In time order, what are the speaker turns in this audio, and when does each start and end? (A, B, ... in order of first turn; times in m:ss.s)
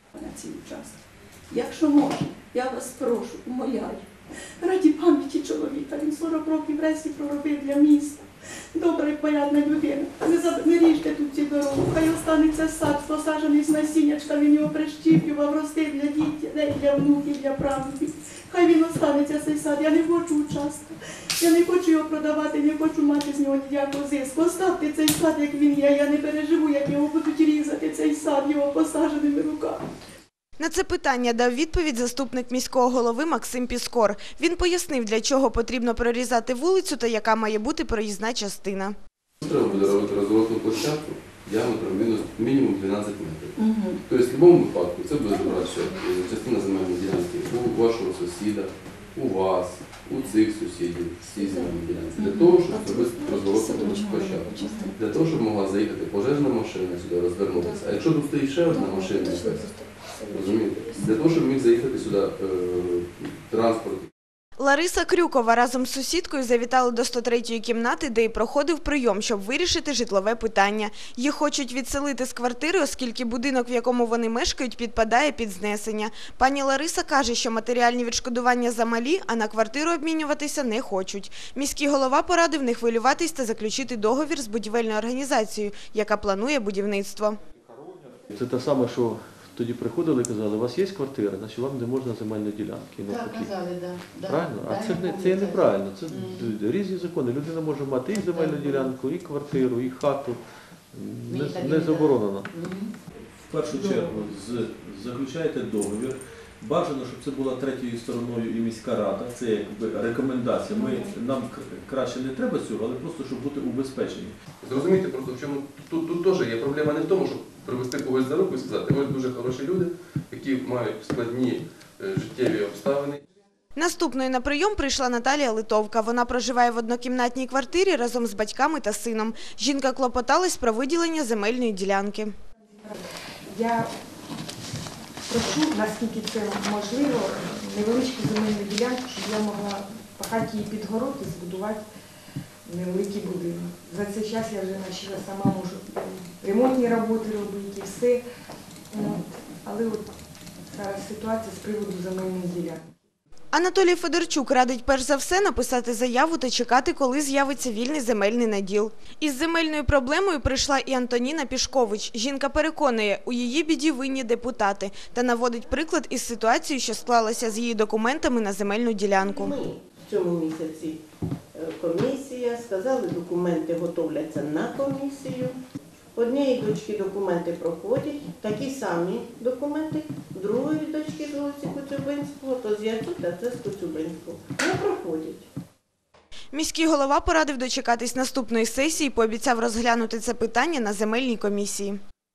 0:00.2-0:01.0 A
0:01.5-0:04.0 A
0:04.6-0:29.8 A
0:30.6-0:38.9 B
0:39.4-0:59.7 C
0:43.6-0:44.0 A
0:45.3-0:46.0 A
0:51.4-0:55.0 A
0:58.7-1:01.0 A
1:00.3-1:04.1 C
1:04.6-1:27.4 B
1:28.3-1:33.6 D
1:33.1-1:35.4 E
1:34.1-1:40.4 D
1:36.1-1:36.5 E
1:38.3-1:38.9 E
1:40.9-1:42.5 D
1:41.3-1:42.9 E
1:43.4-1:54.4 D
1:43.7-1:44.0 E
1:54.6-2:03.2 C
2:03.8-2:12.3 B
2:12.8-2:13.9 F
2:15.3-2:21.8 F
2:22.6-2:28.2 F
2:28.9-2:30.1 F
2:30.7-2:32.8 F
2:33.5-2:49.6 B
2:49.2-2:51.0 G
2:51.5-2:55.6 G
2:56.1-3:05.5 G
3:06.5-3:12.0 B